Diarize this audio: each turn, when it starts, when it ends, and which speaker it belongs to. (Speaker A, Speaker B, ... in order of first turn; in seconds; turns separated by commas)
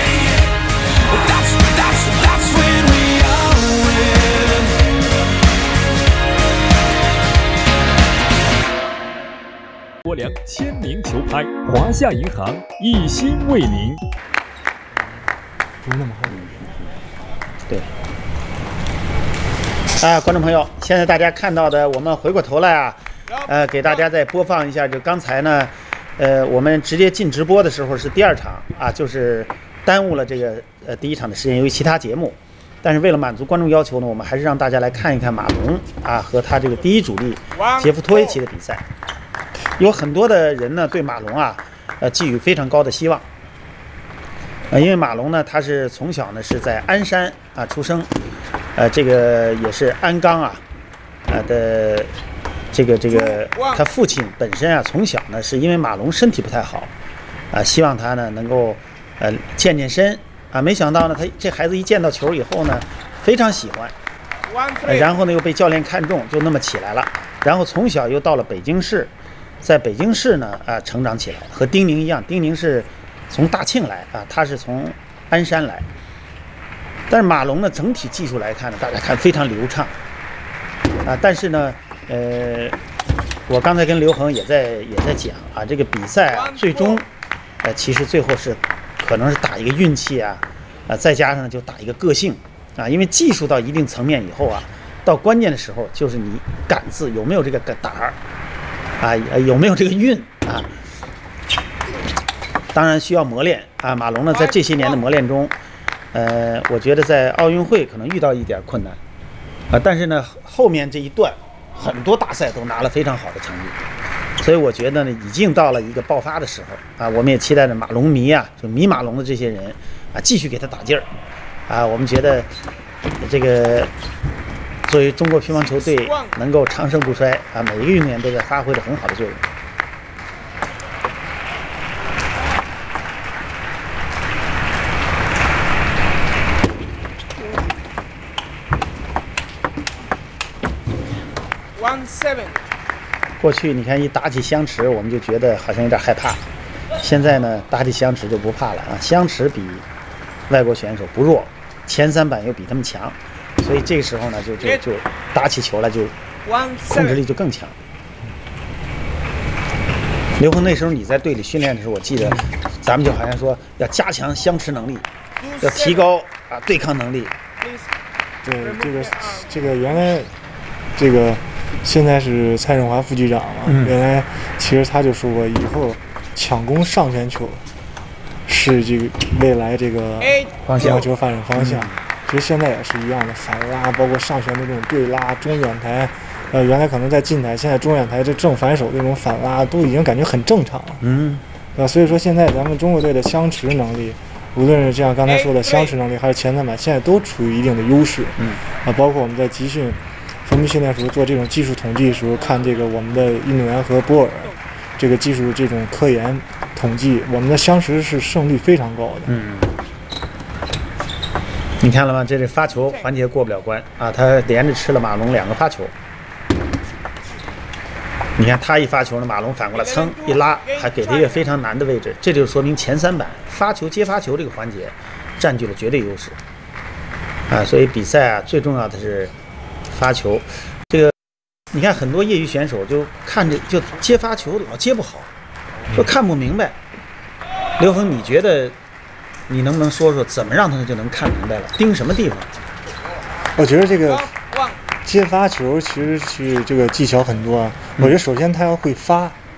Speaker A: 1.1-4.7, Speaker A: 10.1-14.0, Speaker B: 15.8-16.4, Speaker C: 16.2-16.7, Speaker C: 20.0-38.8, Speaker D: 37.5-38.3, Speaker C: 39.8-43.2, Speaker C: 44.7-48.1, Speaker C: 48.8-50.6, Speaker C: 51.3-52.1, Speaker C: 52.7-56.9, Speaker D: 53.1-53.8, Speaker C: 57.5-63.9, Speaker D: 64.5-65.2, Speaker C: 64.8-75.9, Speaker C: 77.1-79.9, Speaker C: 81.0-82.8, Speaker C: 83.5-87.1, Speaker D: 86.3-87.0, Speaker C: 87.6-98.2, Speaker C: 99.0-100.7, Speaker C: 102.7-105.5, Speaker D: 104.3-105.0, Speaker C: 106.1-109.0, Speaker C: 109.7-113.8, Speaker C: 114.4-121.1, Speaker C: 121.7-122.5, Speaker C: 123.2-123.9, Speaker C: 124.8-129.4, Speaker D: 125.6-126.3, Speaker D: 141.8-142.6, Speaker C: 143.4-146.4, Speaker C: 147.0-149.8, Speaker C: 150.5-156.1, Speaker D: 156.4-157.2, Speaker C: 156.8-157.8, Speaker C: 160.4-165.1, Speaker D: 165.4-166.0, Speaker C: 165.6-167.3, Speaker D: 167.6-167.9, Speaker B: 168.4-170.3, Speaker D: 168.6-169.7, Speaker B: 170.9-177.6, Speaker C: 173.7-173.9, Speaker B: 178.4-191.0, Speaker D: 180.2-180.5, Speaker C: 180.7-182.0, Speaker C: 191.0-191.4, Speaker B: 191.7-209.3, Speaker D: 195.3-195.9, Speaker C: 209.3-209.8, Speaker C: 211.8-215.9, Speaker C: 218.4-226.4, Speaker D: 219.7-221.5, Speaker C: 227.5-229.3, Speaker C: 229.9-231.1, Speaker C: 231.7-235.3, Speaker C: 235.9-236.8, Speaker C: 237.8-238.7, Speaker C: 239.5-242.5, Speaker B: 243.6-244.3, Speaker D: 244.0-244.8, Speaker B: 245.0-249.3